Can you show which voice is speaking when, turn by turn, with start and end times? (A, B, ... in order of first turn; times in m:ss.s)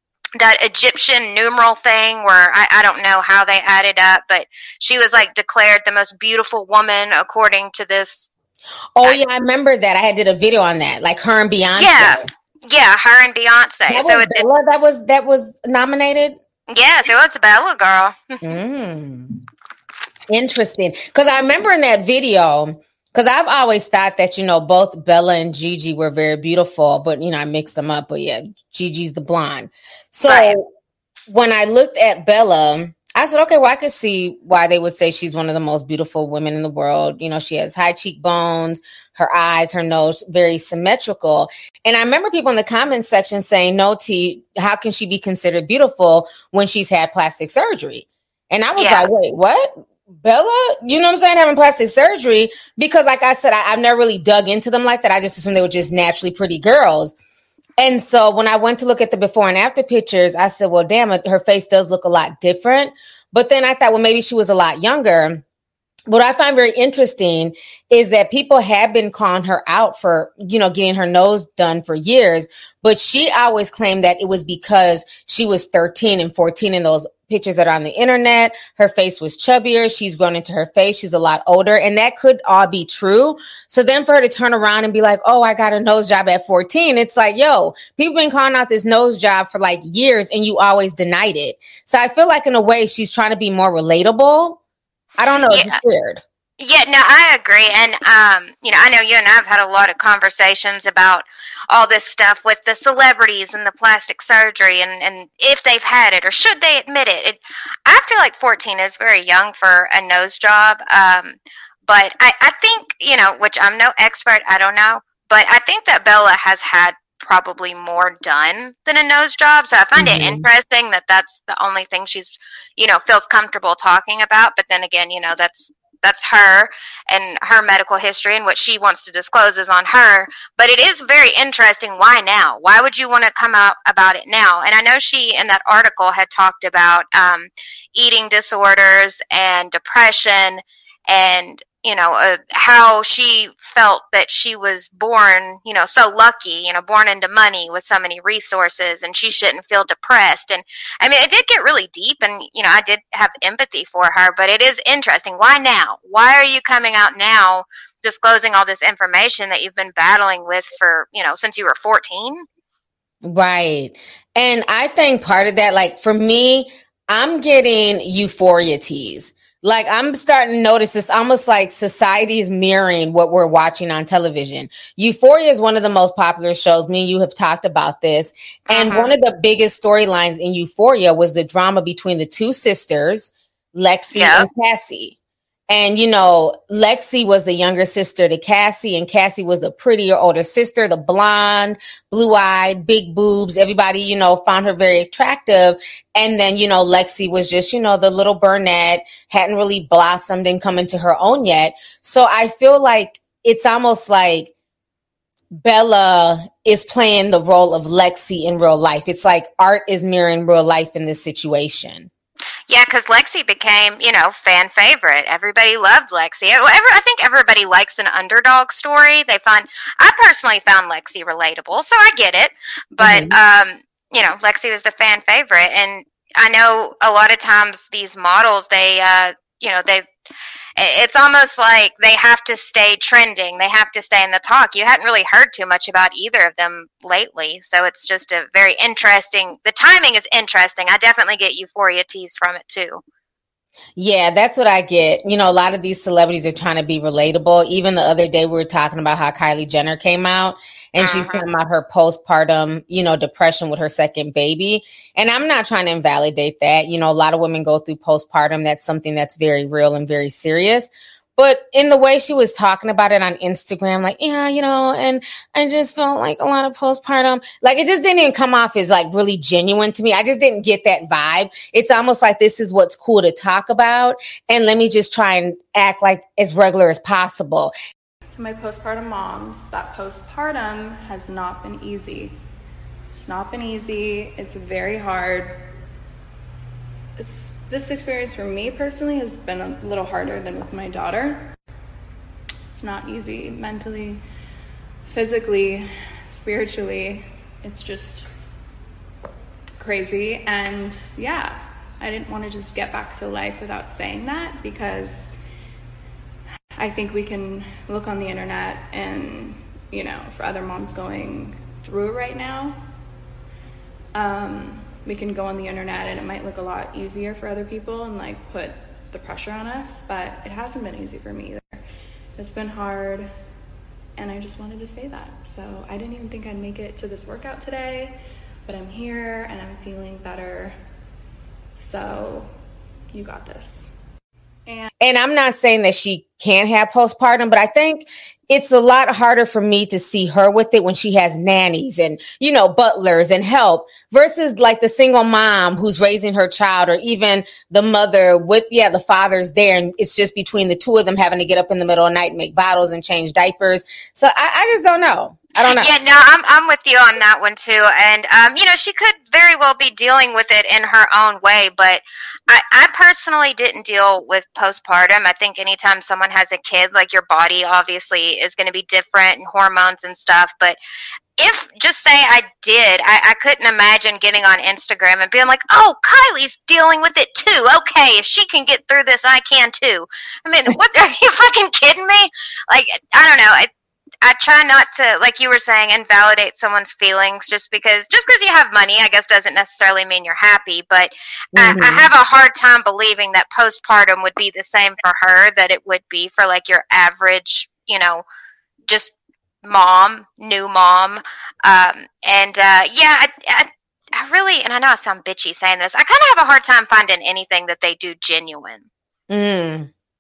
0:00.4-0:08.3 A
0:09.0-0:12.3 B
0:11.8-0:14.5 A
0:13.9-0:16.4 B
0:16.7-0:18.4 A
0:18.4-0:19.4 B
0:20.3-0:30.7 B
0:30.2-0:30.6 A
0:31.3-0:57.2 B
0:48.8-0:49.1 A
0:57.8-1:05.4 B
1:06.1-1:34.6 B
1:35.2-1:36.2 B
1:35.5-1:35.8 A
1:36.6-2:42.5 A
2:00.0-2:00.5 B
2:43.2-3:05.2 B
2:58.7-2:59.1 A
3:04.2-3:04.5 A
3:05.7-3:24.5 B
3:25.5-3:32.1 B
3:32.7-3:50.1 A
3:43.0-3:43.3 B
3:50.8-4:03.0 A
4:04.0-4:37.7 B
4:11.0-4:11.5 A
4:38.3-4:42.4 C
4:43.1-4:45.6 C
4:47.2-4:51.5 C
4:52.7-4:54.2 C
4:55.0-4:58.3 C
4:59.8-5:05.4 C
5:06.8-5:12.8 C
5:14.1-5:21.8 C
5:22.4-5:23.3 C
5:24.2-5:30.8 C
5:31.7-5:32.5 C
5:33.1-5:33.9 C
5:34.7-5:34.9 C
5:35.0-5:55.9 B
5:55.7-6:10.8 A
6:11.4-6:23.7 A
6:24.2-6:38.2 A
6:31.6-6:32.1 B
6:38.9-6:39.1 A
6:39.6-6:48.8 A
6:49.3-6:49.9 B